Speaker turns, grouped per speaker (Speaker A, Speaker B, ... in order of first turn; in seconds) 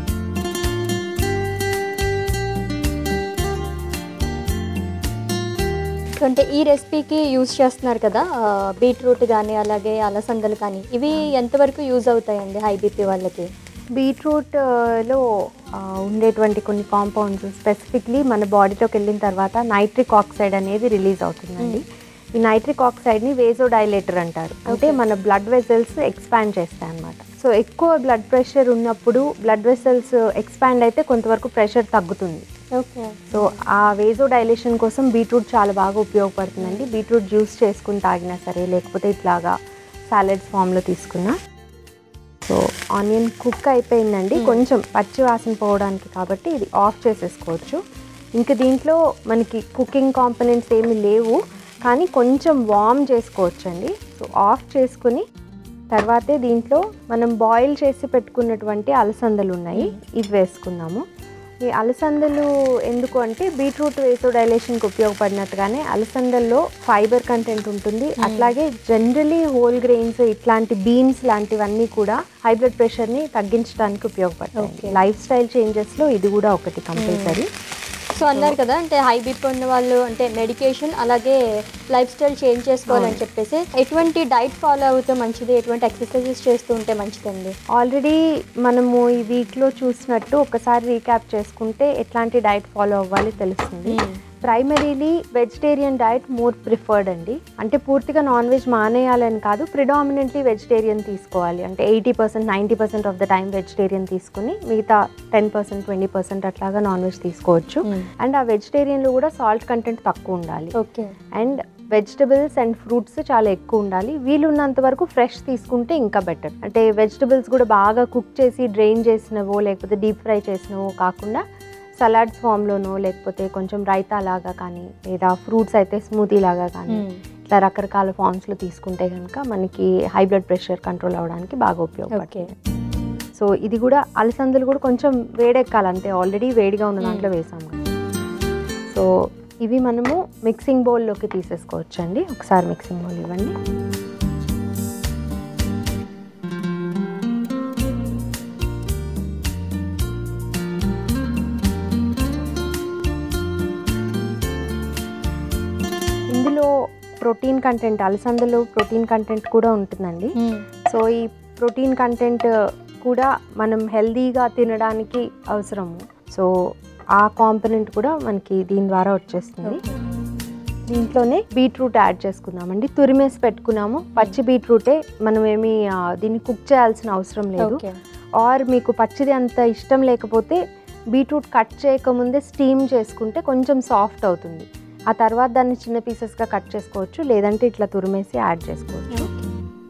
Speaker A: 6.2-13.5, 24.7-25.0, 32.8-33.6, 36.6-36.9, 44.4-44.6, 68.2-68.5, 74.6-74.9, 77.0-77.4, 78.2-81.4, 81.9-87.5, 93.9-94.2, 110.7-111.1, 126.9-127.2, 132.1-132.4, 137.0-137.3, 169.6-170.0, 177.6-177.9, 189.1-189.4
Speaker B: 14.0-15.2, 15.8-21.8, 22.4-32.4, 33.3-39.5, 40.1-41.3, 42.5-47.8, 48.4-55.2, 55.9-61.0, 61.7-77.5, 82.9-83.2, 87.8-110.7, 111.4-121.4, 122.0-132.4, 133.4-137.8, 139.6-143.5, 156.3-156.7, 157.2-160.3, 160.9-162.5, 163.0-166.5, 167.2-169.8, 170.9-177.8, 178.4-180.6, 181.2-189.3